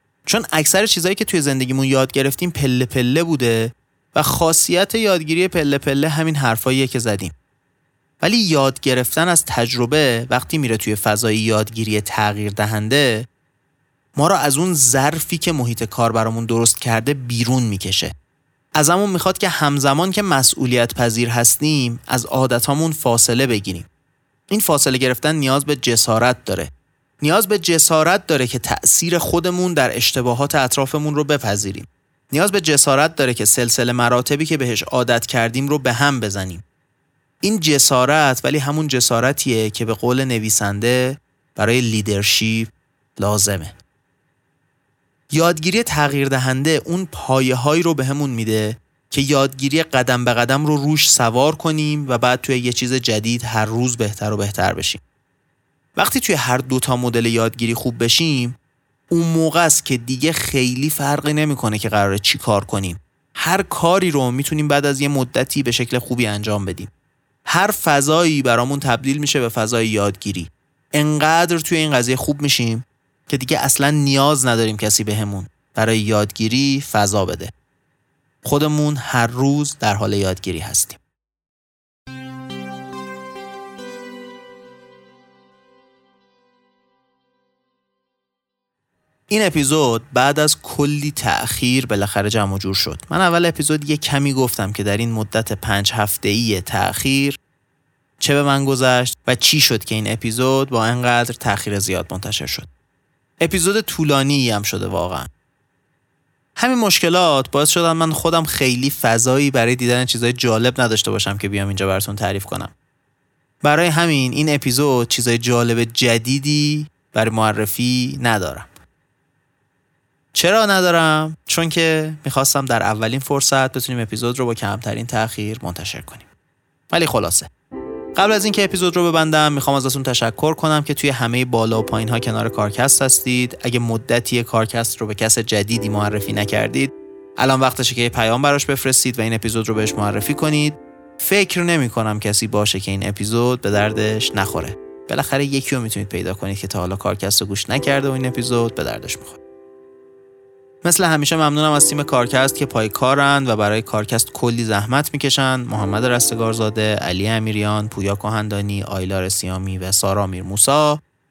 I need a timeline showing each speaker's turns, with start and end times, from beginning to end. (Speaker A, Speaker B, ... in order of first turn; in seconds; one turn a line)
Speaker A: 0.2-7.3
Speaker A: 8.2-13.3
Speaker A: 14.2-18.1
Speaker A: 18.7-23.9
Speaker A: 24.5-36.6
Speaker A: 37.4-43.7
Speaker A: 45.3-55.0
Speaker A: 56.0-58.6
Speaker A: 59.1-66.9
Speaker A: 67.5-77.5
Speaker A: 78.4-81.0
Speaker A: 89.3-97.4
Speaker A: 98.2-102.7
Speaker A: 103.4-105.3
Speaker A: 106.6-112.7
Speaker A: 113.6-118.8
Speaker A: 120.3-126.3
Speaker A: 126.9-127.5
Speaker A: 128.1-149.4
Speaker A: 150.8-161.0